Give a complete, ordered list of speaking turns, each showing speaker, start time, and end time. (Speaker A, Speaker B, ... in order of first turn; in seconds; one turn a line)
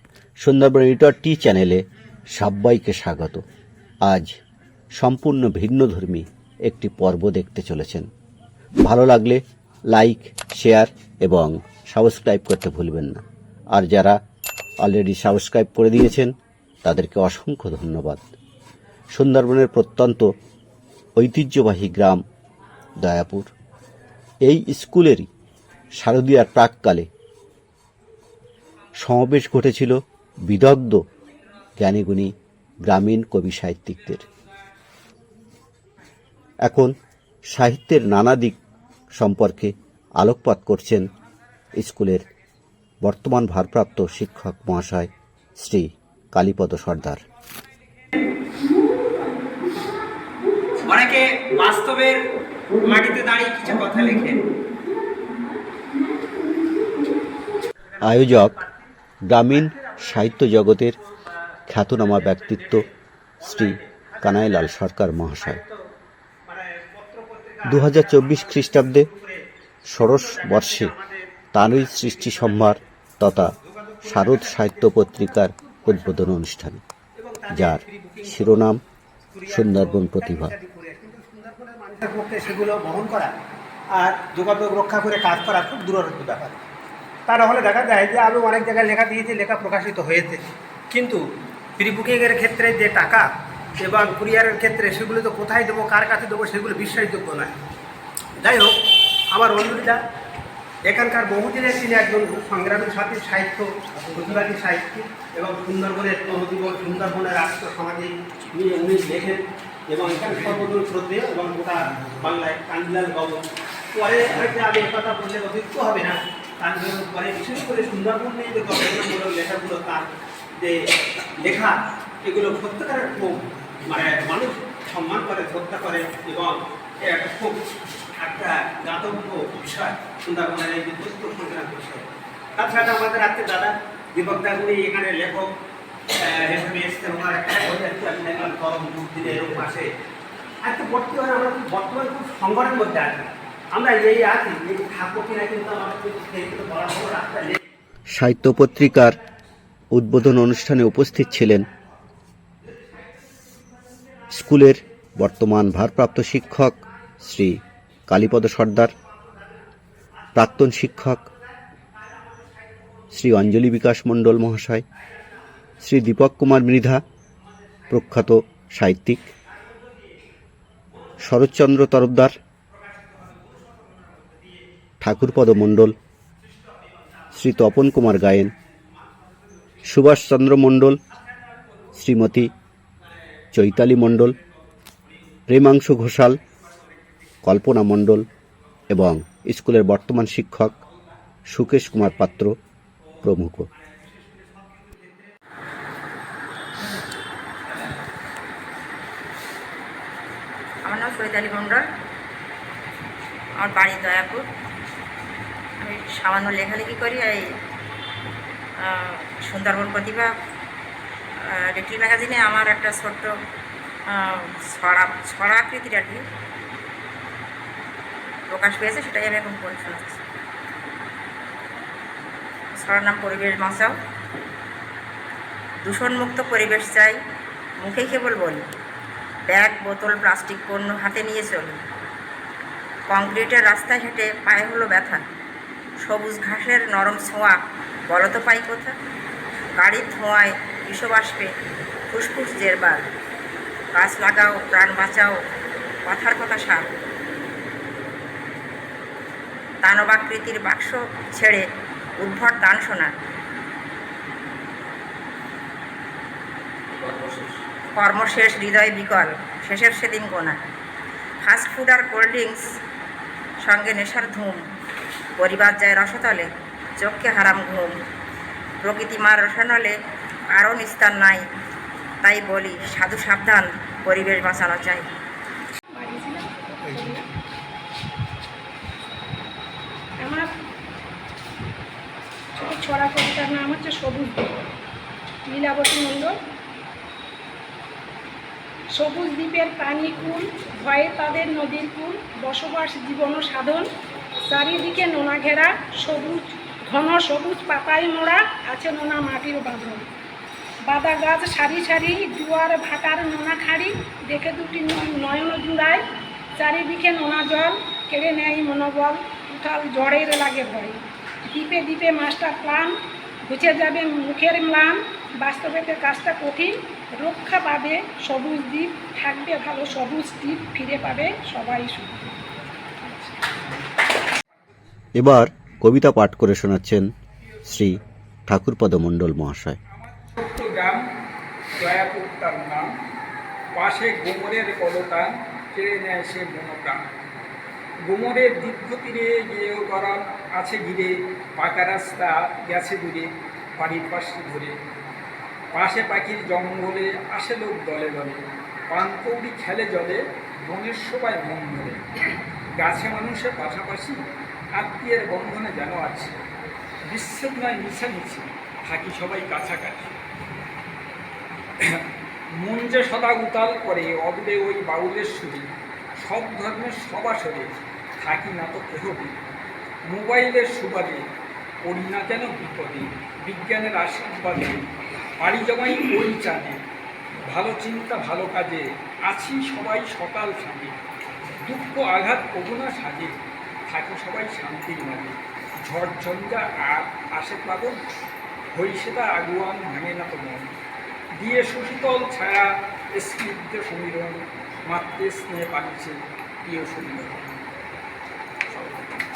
Speaker A: 0.4-1.8
Speaker A: 2.4-3.4
Speaker A: 4.0-4.3
Speaker A: 5.0-8.1
Speaker A: 8.8-9.4
Speaker A: 9.9-13.2
Speaker A: 13.7-14.2
Speaker A: 14.8-16.3
Speaker A: 16.9-18.2
Speaker A: 19.1-20.3
Speaker A: 21.2-22.2
Speaker A: 23.0-23.5
Speaker A: 24.4-25.3
Speaker A: 26.0-27.1
Speaker A: 29.0-29.9
Speaker A: 30.5-31.0
Speaker A: 31.8-32.3
Speaker A: 32.9-34.2
Speaker A: 36.6-36.9
Speaker A: 37.5-38.6
Speaker A: 39.2-41.1
Speaker A: 41.8-42.2
Speaker A: 43.0-47.2
Speaker B: 50.8-52.3
Speaker B: 52.8-54.4
Speaker A: 58.0-58.6
Speaker B: 58.0-58.4
Speaker A: 59.3-61.0
Speaker B: 59.6-60.3
Speaker A: 61.7-62.9
Speaker B: 62.2-62.8
Speaker B: 63.4-64.8
Speaker A: 63.4-65.6
Speaker B: 65.4-65.8
Speaker B: 66.5-69.4
Speaker A: 67.7-69.1
Speaker A: 69.9-70.9
Speaker B: 70.0-72.7
Speaker A: 71.5-76.8
Speaker B: 73.6-76.4
Speaker B: 77.2-78.7
Speaker A: 77.5-78.8
Speaker B: 79.3-83.3
Speaker A: 79.5-80.5
Speaker B: 84.0-86.6
Speaker B: 87.3-91.2
Speaker B: 91.8-93.3
Speaker B: 93.8-97.5
Speaker B: 98.4-98.8
Speaker B: 99.3-100.0
Speaker B: 100.8-127.6
Speaker B: 128.2-135.5
Speaker B: 136.2-139.9
Speaker B: 140.6-147.6
Speaker A: 148.1-149.2
Speaker A: 149.9-151.7
Speaker A: 154.3-158.9
Speaker A: 160.3-161.3
Speaker A: 163.1-164.8
Speaker A: 165.8-167.0
Speaker A: 167.9-169.3
Speaker B: 169.6-170.1
Speaker A: 171.2-172.3
Speaker B: 172.8-174.6
Speaker A: 175.0-176.0
Speaker B: 176.8-177.7
Speaker A: 177.3-178.5
Speaker B: 179.0-179.8
Speaker A: 179.9-181.0
Speaker A: 181.9-182.5
Speaker A: 183.5-184.4
Speaker A: 185.5-186.4
Speaker A: 187.4-188.2
Speaker A: 188.9-190.7
Speaker A: 191.5-192.5
Speaker A: 193.2-193.7
Speaker B: 193.8-195.3
Speaker C: 200.9-201.9
Speaker C: 203.6-204.4
Speaker C: 205.8-207.5
Speaker C: 208.8-210.3
Speaker C: 211.4-213.3
Speaker C: 214.1-216.2
Speaker C: 218.5-220.2
Speaker C: 222.8-224.0
Speaker C: 225.8-227.2
Speaker C: 227.8-228.7
Speaker C: 229.5-231.8
Speaker C: 233.1-235.2
Speaker C: 236.0-238.9
Speaker C: 239.8-241.5
Speaker C: 242.1-243.0
Speaker C: 244.0-245.4
Speaker C: 246.1-246.9
Speaker C: 249.8-251.6
Speaker C: 252.2-253.1
Speaker C: 258.0-260.6
Speaker C: 261.4-262.6
Speaker C: 263.6-264.6
Speaker C: 265.4-267.9
Speaker C: 268.8-269.9
Speaker C: 270.6-271.4
Speaker C: 272.2-275.1
Speaker D: 275.9-277.2
Speaker D: 280.2-280.5
Speaker D: 282.6-284.5
Speaker D: 285.5-286.4
Speaker D: 288.9-293.9
Speaker D: 294.5-300.1
Speaker D: 300.9-306.0
Speaker D: 306.6-322.3
Speaker D: 323.0-323.4
Speaker A: 325.2-327.0
Speaker A: 327.7-329.8
Speaker E: 330.0-331.0
Speaker E: 331.8-332.9
Speaker E: 333.8-337.0
Speaker E: 338.1-344.7
Speaker E: 345.7-352.0
Speaker E: 352.8-354.2
Speaker E: 354.8-356.4
Speaker E: 357.1-360.1
Speaker E: 362.6-365.7
Speaker E: 366.2-369.4
Speaker E: 370.1-371.2
Speaker E: 371.9-374.9
Speaker E: 375.4-376.8
Speaker E: 377.5-381.0
Speaker E: 381.6-383.4
Speaker E: 383.9-388.0
Speaker E: 388.7-390.7
Speaker E: 391.4-397.4